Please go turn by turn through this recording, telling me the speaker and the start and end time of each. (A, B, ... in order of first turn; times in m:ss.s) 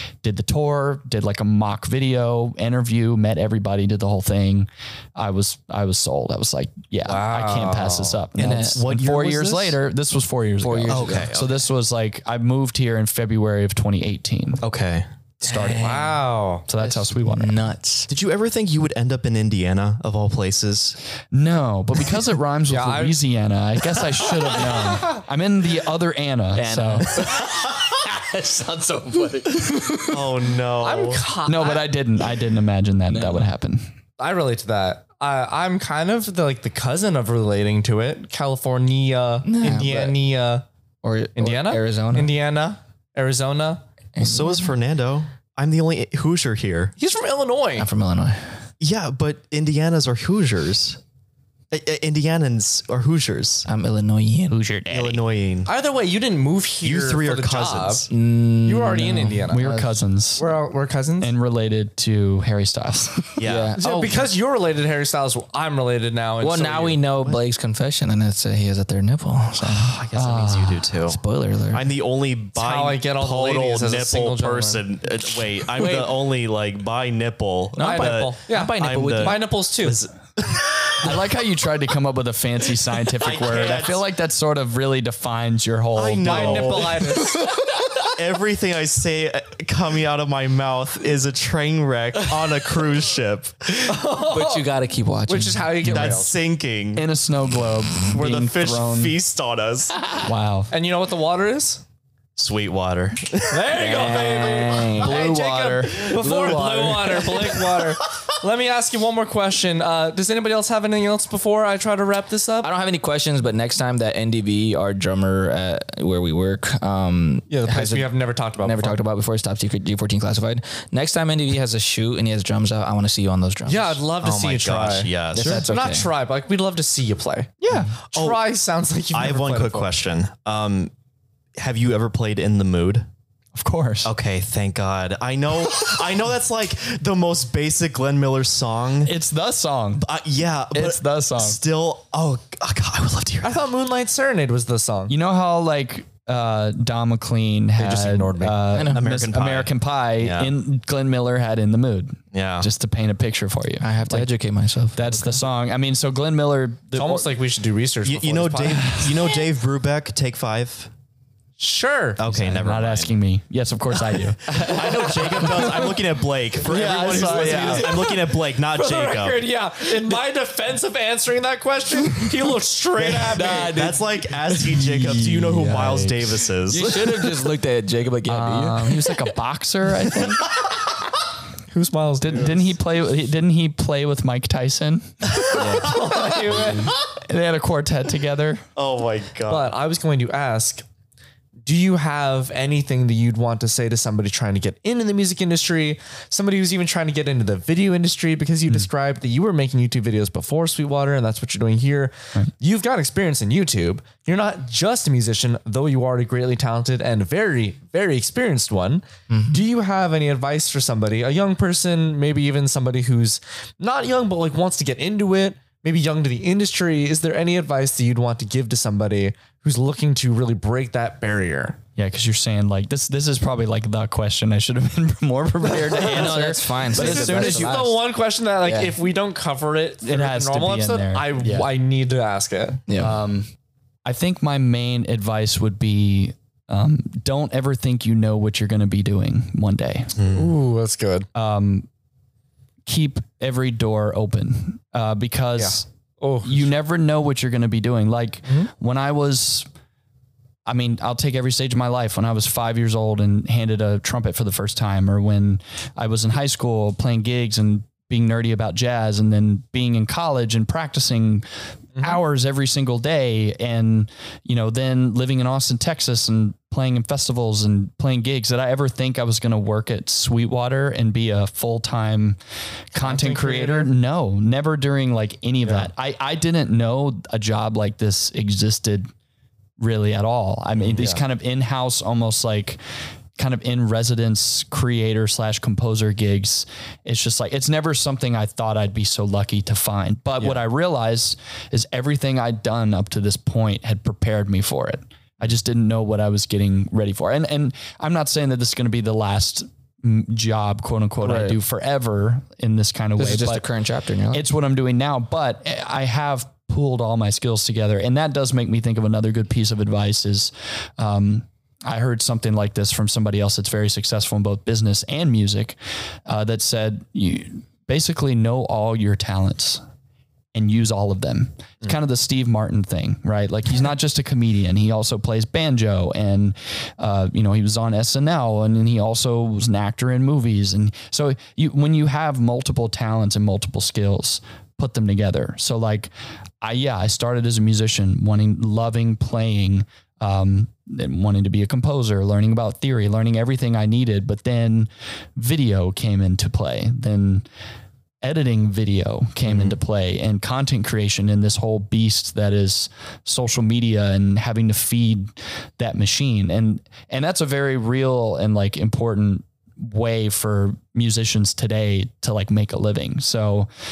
0:00.2-0:14.6 A
0:07.0-0:08.2 B
0:08.4-0:09.8 C
0:08.4-0:08.8 D
0:10.6-0:11.3 D
0:10.9-0:11.6 C
0:14.6-0:15.1 C
0:15.4-0:16.0 A
0:15.4-0:16.2 D
0:15.7-0:16.6 B
0:16.7-0:17.6 A
0:16.8-0:18.1 D
0:18.1-0:21.0 C
0:21.3-0:27.2 A
0:22.7-0:23.2 B
0:26.5-0:30.3 D
0:30.1-0:31.2 C
0:30.8-0:31.9 B
0:31.4-0:33.9 A
0:33.1-0:33.5 D
0:34.2-0:40.6 B
0:39.4-0:40.2 D
0:41.0-0:42.3 D
0:41.4-0:43.8 B
0:44.1-0:44.7 D
0:44.2-0:46.9 C
0:47.0-0:47.9 B
0:47.8-0:48.6 D
0:48.8-0:51.0 C
0:51.7-0:53.7 C
0:53.6-0:55.1 D
0:54.5-0:55.2 A
0:54.9-0:55.7 C
0:55.6-0:58.1 B
0:56.8-0:58.1 C
0:58.1-1:00.0 D
0:58.6-0:59.7 B
0:59.5-1:00.4 A
1:00.4-1:01.3 B
1:01.2-1:03.4 A
1:03.4-1:03.7 C
1:03.4-1:04.3 D
1:03.8-1:07.0 B
1:06.4-1:10.0 D
1:09.6-1:21.1 C
1:10.1-1:10.9 A
1:11.0-1:11.9 D
1:12.6-1:14.8 B
1:15.8-1:16.1 D
1:17.7-1:19.4 D
1:17.8-1:20.0 B
1:21.0-1:26.9 A
1:23.2-1:24.0 C
1:25.9-1:27.2 C
1:26.2-1:27.5 B
1:28.0-1:33.8 C
1:33.8-1:34.7 B
1:34.3-1:36.0 D
1:35.3-1:36.4 B
1:35.9-1:36.1 A
1:35.9-1:37.0 C
1:37.0-1:39.2 A
1:38.0-1:40.1 C
1:40.2-1:40.7 A
1:40.7-1:41.8 B
1:42.4-1:43.6 C
1:43.5-1:52.7 B
1:43.7-1:47.8 D
1:45.0-1:46.0 A
1:52.6-2:04.0 D
1:57.5-1:59.0 B
2:03.6-2:09.9 B
2:04.2-2:05.7 C
2:05.3-2:06.1 D
2:05.4-2:05.6 A
2:07.6-2:07.9 A
2:07.8-2:08.4 C
2:09.1-2:10.9 C
2:11.6-2:13.1 C
2:13.5-2:14.1 A
2:14.0-2:19.1 C
2:19.0-2:20.0 A
2:20.0-2:23.6 C
2:20.7-2:21.6 A
2:23.4-2:25.1 B
2:25.1-2:34.3 A
2:27.8-2:28.6 B
2:28.7-2:29.1 D
2:28.9-2:30.5 C
2:32.3-2:32.7 C
2:33.8-2:35.4 D
2:34.9-2:37.3 A
2:36.9-2:39.4 B
2:38.0-2:40.9 C
2:41.6-2:42.2 B
2:42.2-2:43.1 C
2:42.3-2:45.2 A
2:44.4-2:49.5 C
2:44.6-2:45.9 B
2:46.7-2:53.8 B
2:46.7-2:48.1 A
2:53.0-2:57.4 C
2:53.4-2:54.0 A
2:53.4-2:54.0 D
2:54.5-2:56.4 A
2:56.7-2:59.2 D
2:58.3-3:00.4 A
3:01.7-3:02.7 B
3:02.2-3:05.8 A
3:05.5-3:06.9 B
3:07.1-3:08.6 A
3:08.8-3:09.7 C
3:09.5-3:10.8 B
3:11.6-3:41.8 B
3:29.3-3:29.6 D
3:42.0-3:47.8 A
3:45.6-3:52.8 B
3:45.9-3:48.0 D
3:48.6-3:49.0 D
3:50.0-3:51.7 A
3:52.9-3:53.2 D
3:53.0-3:53.5 A
3:54.0-4:00.1 A
4:00.1-4:00.5 C
4:00.3-4:01.3 B
4:01.3-4:01.9 A
4:02.9-4:05.9 A
4:05.6-4:06.7 B
4:06.4-4:09.7 A
4:10.6-4:21.4 A
4:22.0-4:32.4 A
4:32.9-4:39.1 A
4:32.9-4:33.9 B
4:35.6-4:35.9 C
4:39.8-4:42.8 A
4:40.8-4:41.2 C
4:43.4-5:03.7 A
5:01.2-5:01.6 D
5:03.2-5:04.4 D
5:04.3-5:19.8 A
5:20.5-5:36.1 A
5:36.6-5:47.4 A
5:48.2-6:03.7 A
5:49.4-5:49.8 C